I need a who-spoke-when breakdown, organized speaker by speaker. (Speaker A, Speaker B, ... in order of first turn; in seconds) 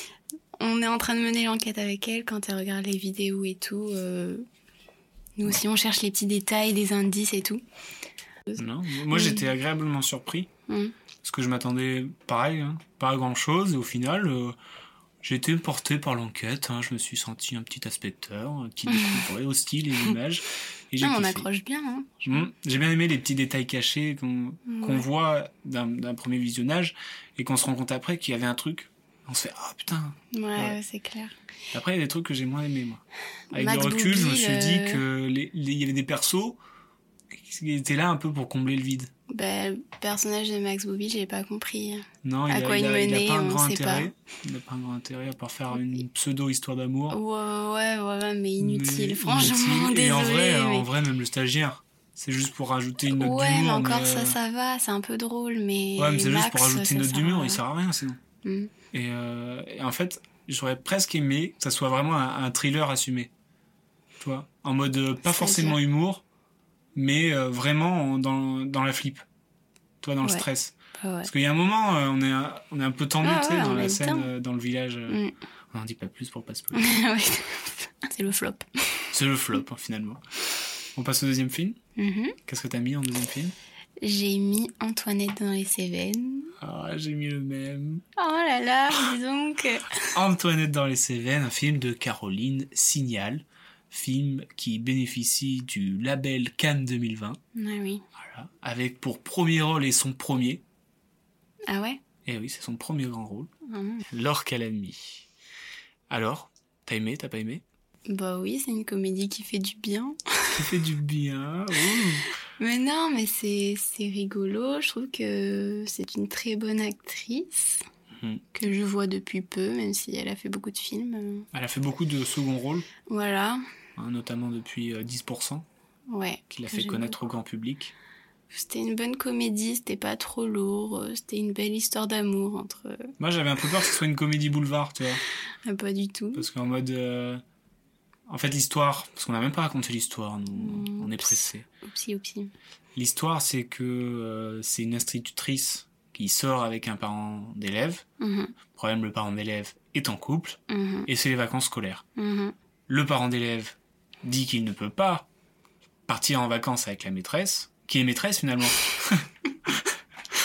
Speaker A: 0.6-4.5, 5.4-7.6, 8.5-9.5, 10.7-10.9, 18.9-19.2, 21.0-22.5, 24.7-25.1, 30.3-31.3, 33.5-35.0, 39.3-44.1, 47.1-50.9, 53.1-57.6, 58.4-58.7, 65.3-65.8, 71.0-71.3, 73.2-74.3, 75.1-75.3, 76.7-79.1, 82.0-82.4, 84.0-86.5, 88.2-90.1, 97.6-98.0, 101.7-102.0, 103.7-104.0, 108.1-110.6, 112.6-117.8, 118.5-121.5, 123.1-123.6, 126.1-127.2, 128.5-133.1, 135.7-136.5, 140.6-142.5, 148.2-148.5, 150.7-151.1, 152.2-152.6
Speaker B: 8.6-10.5, 11.2-14.6, 15.2-21.5, 22.3-30.8, 31.7-36.6, 37.3-39.1, 42.2-47.2, 48.6-54.4, 56.0-58.2, 58.9-63.3, 64.2-66.2, 67.0-69.2, 70.0-75.2, 75.7-77.0, 79.1-80.2, 81.0-81.8, 82.5-83.5, 86.6-88.0, 90.1-97.4, 98.2-100.6, 102.2-103.5, 104.1-105.3, 106.1-107.6, 110.5-112.3, 118.1-118.5, 121.5-122.9, 124.0-125.7, 126.5-127.9, 133.2-135.2, 136.3-137.4, 138.3-141.7, 142.9-148.0, 148.7-152.0, 152.9-155.3, 156.1-159.9